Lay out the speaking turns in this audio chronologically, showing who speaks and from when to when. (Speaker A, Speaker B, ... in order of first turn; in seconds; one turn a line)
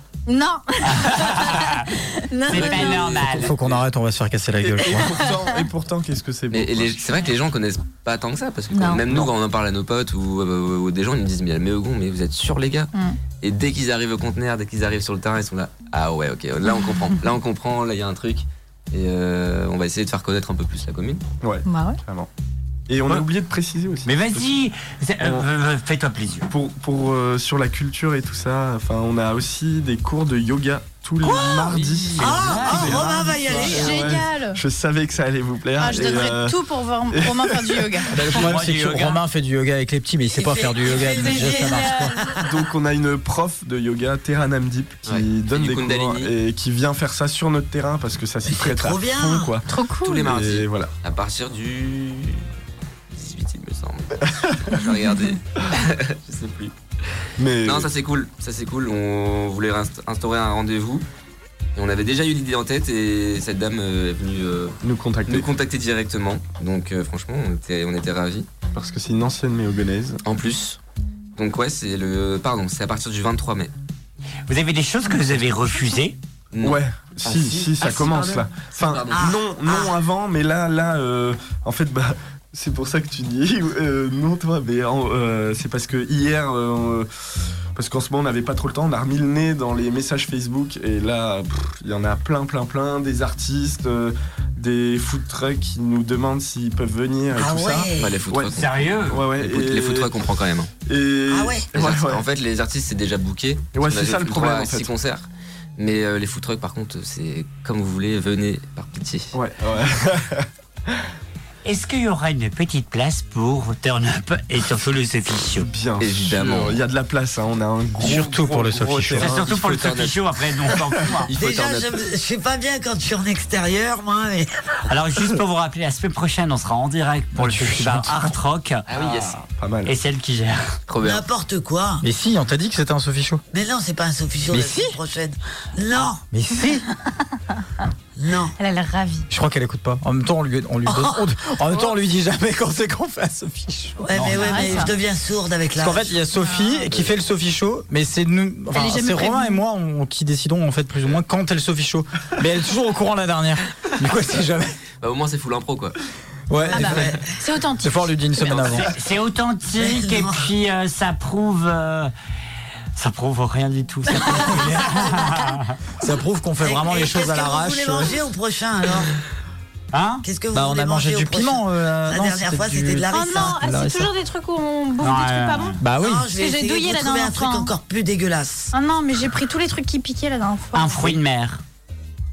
Speaker A: 0.3-3.2
Speaker B: 0.8-1.9
Speaker B: 2.5-3.6
Speaker C: 2.5-3.8
Speaker D: 3.3-5.1
Speaker E: 4.6-7.0
Speaker A: 5.1-5.6
Speaker C: 6.5-21.2
Speaker A: 8.7-9.0
Speaker E: 9.1-9.3
Speaker A: 12.9-13.2
Speaker E: 21.4-22.3
Speaker A: 21.6-22.0
Speaker E: 22.9-24.5
Speaker B: 24.1-26.5
Speaker E: 25.2-25.5
Speaker E: 26.5-38.5
Speaker B: 31.2-33.8
Speaker C: 31.5-33.0
Speaker F: 32.2-34.1
Speaker D: 32.6-33.1
Speaker A: 33.4-34.6
Speaker A: 35.8-38.1
Speaker D: 38.1-42.2
Speaker B: 38.2-39.2
Speaker F: 40.3-42.4
Speaker A: 40.9-42.2
Speaker E: 42.4-50.9
Speaker C: 45.1-46.3
Speaker F: 48.5-49.5
Speaker A: 49.7-50.3
Speaker C: 50.0-52.5
Speaker C: 53.1-61.1
Speaker E: 57.4-57.9
Speaker C: 61.8-68.5
Speaker E: 64.8-65.5
Speaker E: 68.7-70.2
Speaker C: 70.2-70.8
Speaker C: 71.4-73.7
Speaker B: 74.5-76.2
Speaker C: 76.5-79.4
Speaker E: 76.6-87.1
Speaker F: 79.1-79.9
Speaker E: 87.7-100.2
Speaker F: 97.3-98.2
Speaker C: 98.0-100.7
Speaker B: 98.5-99.3
Speaker E: 100.8-102.3
Speaker F: 101.3-101.7
Speaker C: 101.8-105.3
Speaker E: 103.8-104.9
Speaker C: 105.8-109.3
Speaker E: 109.3-111.1
Speaker B: 111.7-115.7
Speaker E: 115.5-119.5
Speaker C: 116.0-116.8
Speaker D: 118.0-119.3
Speaker B: 119.2-121.3
Speaker C: 119.2-120.2
Speaker C: 121.3-122.0
Speaker F: 121.3-124.8
Speaker B: 124.9-129.2
Speaker D: 127.4-128.4
Speaker C: 128.9-129.4
Speaker E: 129.0-129.9
Speaker B: 129.9-130.7
Speaker C: 130.9-131.3
Speaker F: 131.0-132.1
Speaker D: 132.0-133.4
Speaker F: 133.5-136.2
Speaker D: 134.5-135.0
Speaker D: 136.3-136.8
Speaker F: 138.2-138.6
Speaker A: 138.6-139.3
Speaker D: 139.3-144.3
Speaker F: 140.9-141.3
Speaker F: 144.0-146.2
Speaker B: 144.1-144.7
Speaker A: 144.3-144.9
Speaker D: 145.8-154.8
Speaker A: 146.3-146.9
Speaker A: 148.7-149.6
Speaker C: 155.0-156.0
Speaker D: 156.5-157.3
Speaker F: 156.6-157.4
Speaker A: 156.6-158.7
Speaker D: 157.8-158.9
Speaker C: 158.5-158.8
Speaker B: 158.6-162.1
Speaker F: 159.8-160.5
Speaker B: 163.0-165.8
Speaker D: 164.3-168.2
Speaker F: 166.6-169.2
Speaker B: 169.9-170.2
Speaker F: 170.2-173.6
Speaker D: 170.5-174.1
Speaker A: 173.1-177.7
Speaker B: 175.0-175.8
Speaker D: 175.8-176.3
Speaker F: 176.0-178.7
Speaker A: 178.7-181.2
Speaker B: 180.7-181.6